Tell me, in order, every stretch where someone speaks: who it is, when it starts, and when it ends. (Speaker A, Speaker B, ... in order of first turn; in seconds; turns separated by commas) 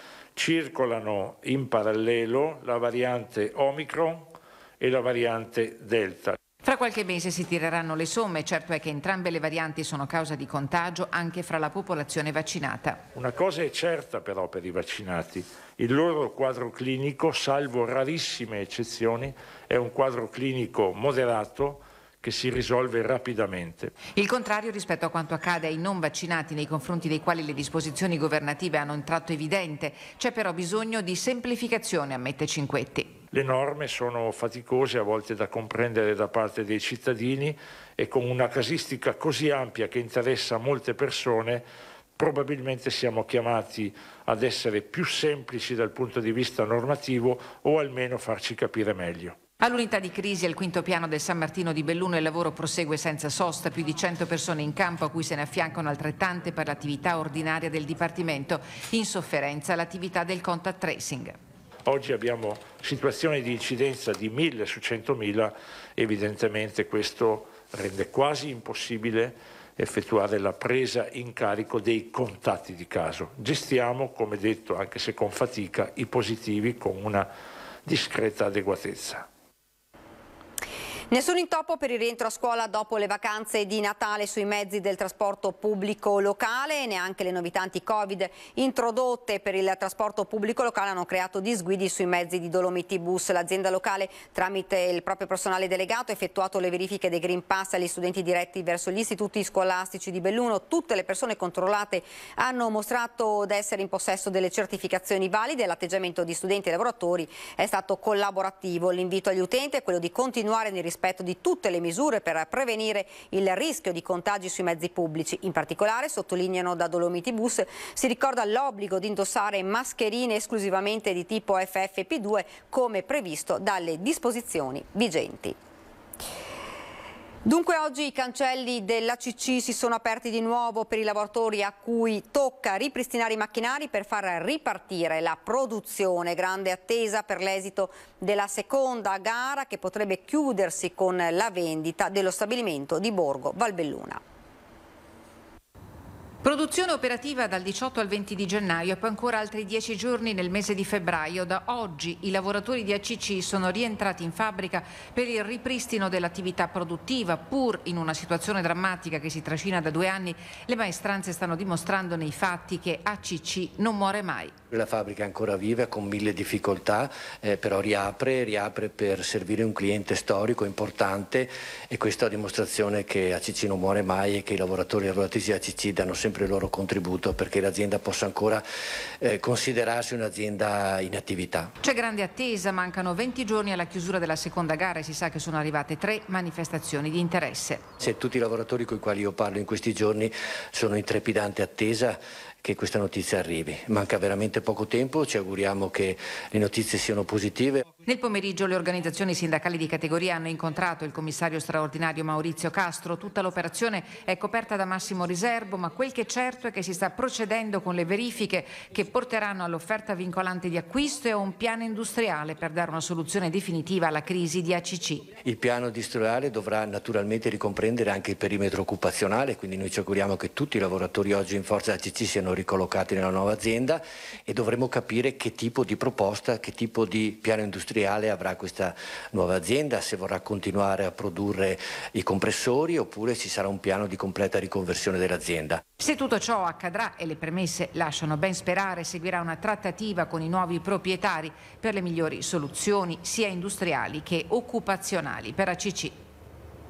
Speaker A: 0.3-6.4, Speaker B: 6.6-13.0, Speaker A: 13.1-23.9, Speaker B: 24.1-33.2, Speaker A: 33.3-41.6, Speaker A: 42.1-49.4, Speaker B: 49.6-61.4, Speaker A: 61.9-77.3, Speaker A: 77.8-79.2, Speaker C: 81.1-125.5, Speaker C: 127.4-144.2, Speaker B: 146.4-164.5, Speaker D: 164.7-178.6, Speaker D: 179.2-181.7, Speaker B: 181.8-187.9, Speaker D: 188.0-197.8, Speaker B: 198.1-215.3, Speaker D: 215.4-235.8, Speaker B: 236.0-246.2